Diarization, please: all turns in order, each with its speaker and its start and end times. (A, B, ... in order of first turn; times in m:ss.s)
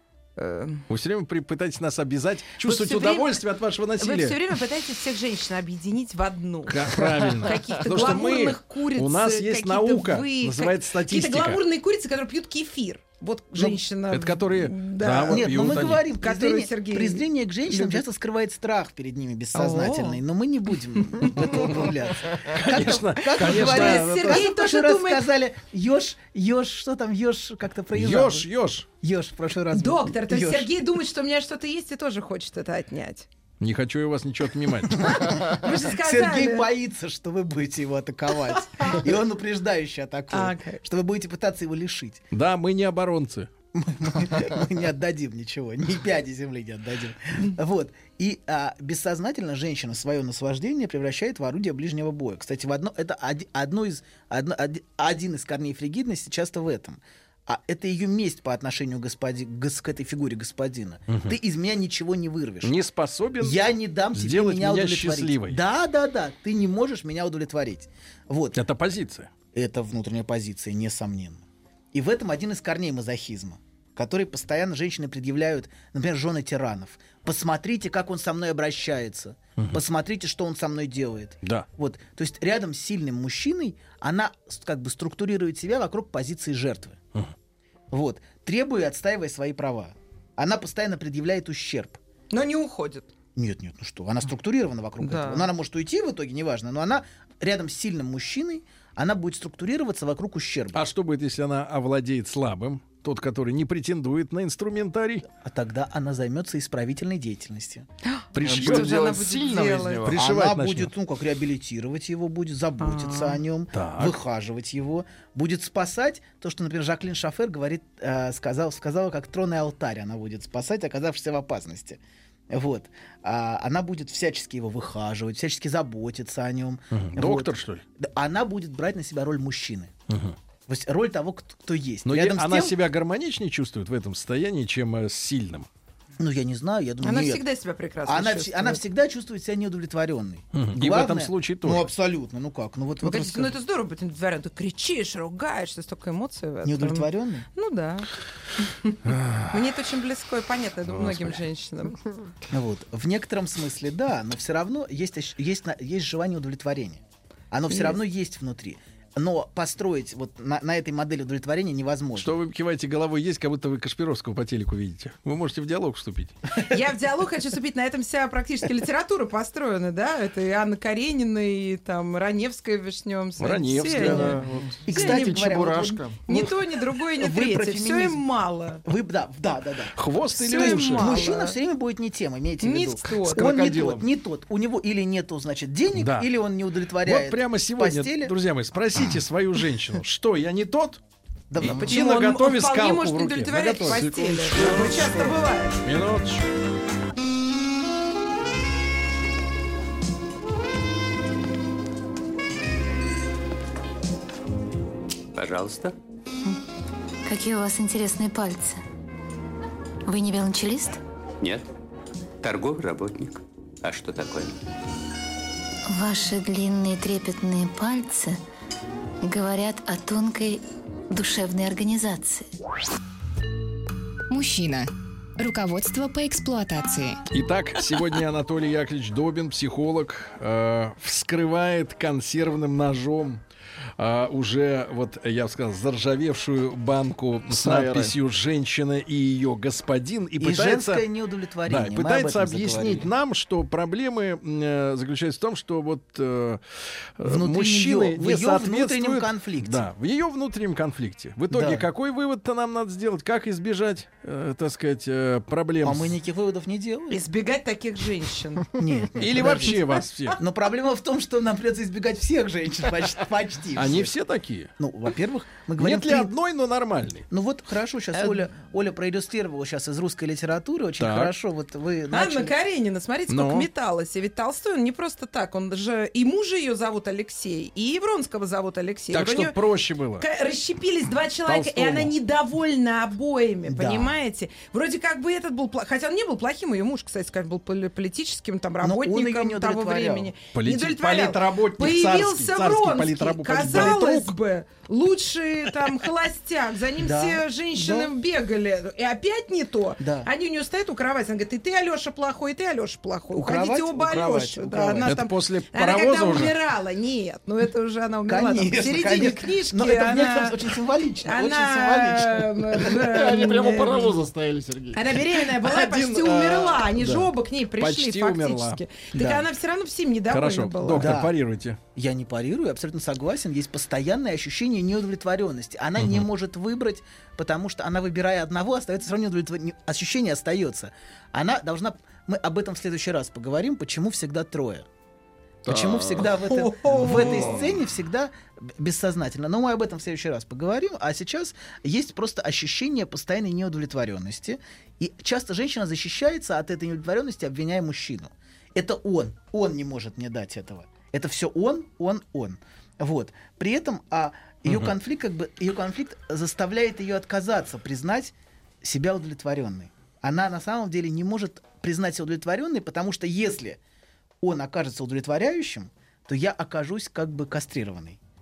0:00.4-0:00.9 A
0:00.9-0:04.4 B
0:02.6-0:03.4 A
0:04.0-0:18.0 A
0:06.7-0:11.6 B
0:14.1-0:16.0 B
0:15.3-0:28.5 C
0:19.5-0:20.2 A
0:21.0-0:21.8 A
0:22.5-0:24.4 B
0:23.4-0:25.3 A
0:27.9-0:28.9 B
0:29.0-0:30.7 C
0:29.7-0:33.3 A
0:33.6-0:35.2 B
0:35.0-0:42.2 C
0:35.3-0:36.7 A
0:38.5-0:39.0 A
0:40.3-0:40.8 A
0:42.3-0:43.5 B
0:43.8-1:02.8 C
1:01.1-1:01.4 B
1:02.6-1:05.6 B
1:03.4-1:08.6 C
1:08.5-1:09.3 B
1:09.5-1:27.0 C
1:27.9-1:32.0 C
1:32.3-1:33.1 A
1:33.4-1:40.9 C
1:35.0-1:35.5 A
1:40.7-1:45.3 B
1:45.4-1:47.9 C
1:48.0-1:50.1 A
1:48.3-1:49.1 B
1:48.4-1:50.2 D
1:50.0-1:50.9 B
1:50.2-2:09.9 C
1:52.8-1:53.4 A
1:53.7-1:54.2 B
2:06.9-2:07.8 B
2:10.1-2:10.4 B
2:10.7-2:12.8 C
2:12.1-2:15.7 B
2:16.2-2:17.4 C
2:17.0-2:18.8 A
2:18.0-2:23.6 C
2:20.5-2:21.9 B
2:23.0-2:28.1 A
2:26.6-2:27.5 C
2:28.6-2:29.0 A
2:29.1-2:29.6 B
2:29.5-2:32.0 A
2:30.9-2:31.4 B
2:32.5-2:42.4 C
2:37.7-2:38.0 A
2:42.2-2:46.4 B
2:46.6-2:54.4 A
2:53.4-2:54.4 B
2:53.9-2:56.5 C
2:54.1-2:56.2 D
2:54.9-2:55.5 A
2:56.3-2:58.8 A
2:57.1-2:58.2 C
2:58.8-3:08.3 C
3:00.0-3:01.2 B
3:00.4-3:01.6 A
3:02.6-3:03.5 A
3:03.2-3:04.1 D
3:06.0-3:06.3 B
3:07.0-3:11.0 B
3:11.5-3:12.0 C
3:11.6-3:15.1 B
3:11.7-3:15.8 A
3:13.9-3:15.4 C
3:15.8-3:16.4 B
3:25.3-3:26.0 E
3:27.3-3:28.8 F
3:30.1-3:31.0 F
3:31.4-3:31.7 E
3:32.4-3:34.6 E
3:35.9-3:38.4 F
3:39.2-3:42.4 F
3:44.3-3:47.2 G
3:47.3-3:53.4 B
3:54.0-4:01.1 B
3:57.5-3:58.1 D
4:00.4-4:03.1 C
4:01.7-4:06.6 B
4:07.2-4:16.2 B
4:07.2-4:09.9 C
4:11.5-4:11.9 C
4:15.8-4:17.2 C
4:17.1-4:18.8 A
4:18.8-4:24.2 C
4:19.2-4:20.4 B
4:23.8-4:24.7 B
4:24.8-4:26.4 C
4:25.8-4:27.3 B
4:27.3-4:32.5 C
4:31.0-4:31.3 B
4:32.1-4:39.6 A
4:33.3-4:33.7 B
4:39.1-4:40.3 B
4:40.2-5:10.6 A
4:41.5-4:42.1 B
4:43.7-4:44.2 C
4:48.8-4:50.3 C
4:50.5-4:54.4 B
4:53.7-4:54.0 C
4:57.0-4:58.1 C
5:00.0-5:00.3 C
5:03.3-5:05.2 C
5:05.1-5:06.6 B
5:08.3-5:12.9 C
5:11.2-5:14.1 A
5:12.9-5:15.0 D
5:14.9-5:21.1 A
5:15.6-5:18.8 B
5:19.1-5:19.5 C
5:20.3-5:21.8 B
5:21.0-5:21.4 C
5:22.0-5:34.9 C
5:35.6-6:03.8 C
5:35.7-5:37.7 D
5:36.4-5:37.5 A
5:54.7-5:54.9 B
6:04.4-6:08.2 C